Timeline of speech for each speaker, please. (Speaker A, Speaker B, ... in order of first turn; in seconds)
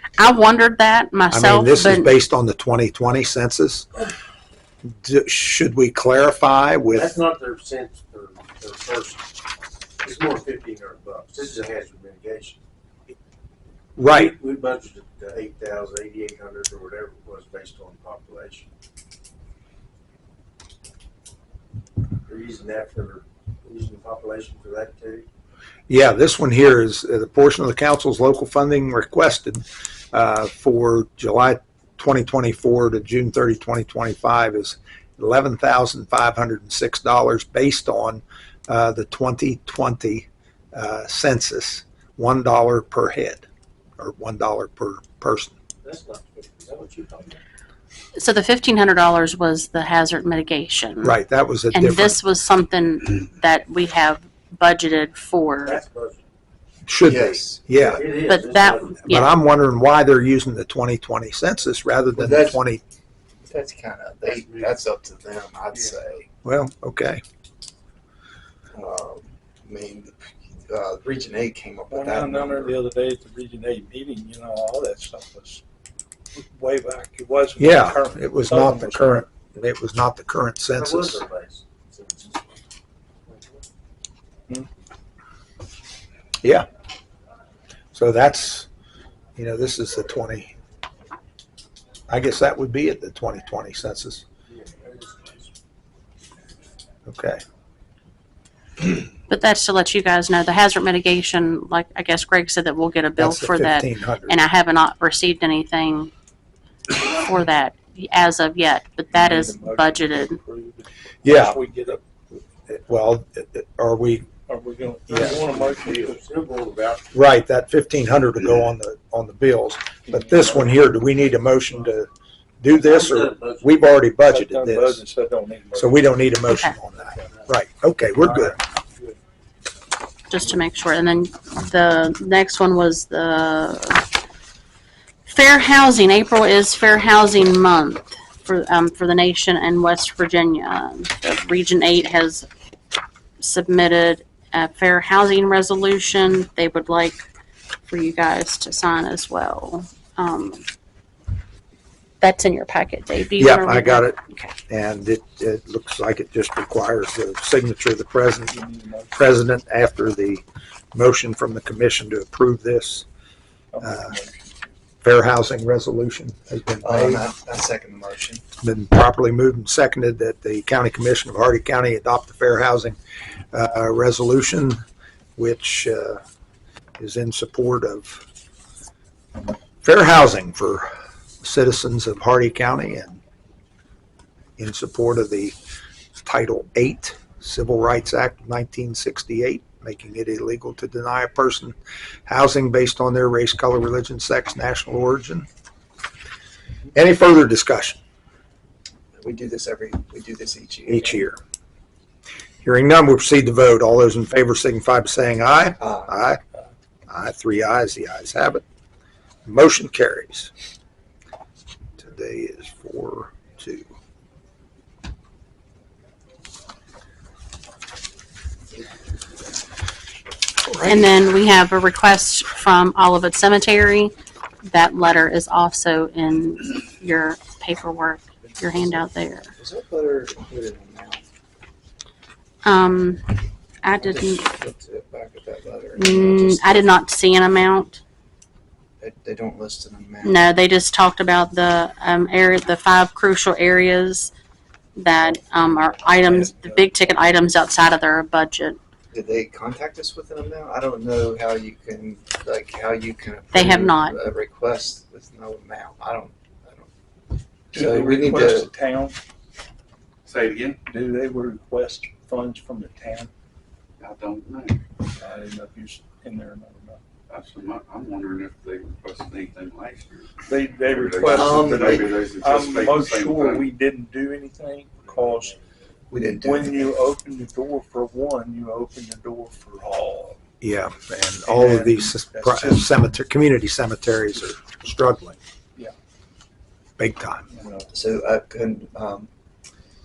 Speaker A: 0.2-2.1, 48.1-51.1, 51.7-55.8, 58.3-59.3, 99.3-106.1, 107.0-110.4, 126.5-126.7, 130.3-134.1, 135.2-142.5, 143.4-147.2, 147.9-150.6, 152.2-154.5, 220.8-224.1, 224.6-229.5, 232.6-234.5, 235.9-238.0, 240.2-244.3, 244.9-248.8, 253.5-254.2
Speaker B: 1.3-3.9, 4.8-7.1, 13.9-14.3, 25.9-43.4, 44.0-45.5, 51.0-52.2, 56.9-58.0, 59.0-62.8, 66.4-67.2, 77.6-81.2, 87.9-88.7, 89.3-90.5, 92.1-94.2, 97.0-97.4, 103.2-104.4, 111.2-111.6, 112.7-114.3, 115.1-115.4, 117.1-122.1, 122.6-125.0, 125.7-128.6, 153.4-158.5, 159.1-163.1, 163.8-164.2, 165.0-167.2, 168.6-173.0, 173.5-174.8, 175.4-176.2, 177.0-178.2, 179.8-180.9, 181.4-183.2, 184.6-185.5, 186.2-195.5, 196.9-198.0, 200.9-201.4, 202.6-206.4, 207.1-208.6, 209.4-210.5, 212.0-213.9, 220.7-221.1, 280.6-285.4, 287.0-287.4
Speaker C: 6.9-9.2, 10.0-12.6, 14.0-18.7, 22.2-25.2, 45.8-47.4, 55.6-56.2, 57.9-59.0, 64.3-64.7, 80.7-82.6, 83.3-83.6, 94.5-95.5, 115.3-117.1, 122.7-123.6
Speaker D: 57.0-57.9, 62.1-62.6, 63.4-66.3, 68.7-72.8, 166.8-168.4, 199.2-201.2, 205.8-206.1, 229.6-231.2, 234.0-236.9, 239.0-240.4, 249.1-256.9, 257.7-258.7, 271.2-272.1, 276.1-276.9, 287.9-289.3
Speaker E: 71.9-75.6, 76.3-79.2, 109.1-112.0, 114.4-116.2, 120.1-120.8, 124.2-126.1, 158.5-159.2, 163.7-164.7, 245.2-247.9, 257.7-259.2, 260.8-263.3, 265.1-267.0, 270.4-275.5, 276.3-280.4, 281.4-283.0, 287.5-287.9
Speaker F: 260.2-260.8, 264.0-264.8, 267.3-273.7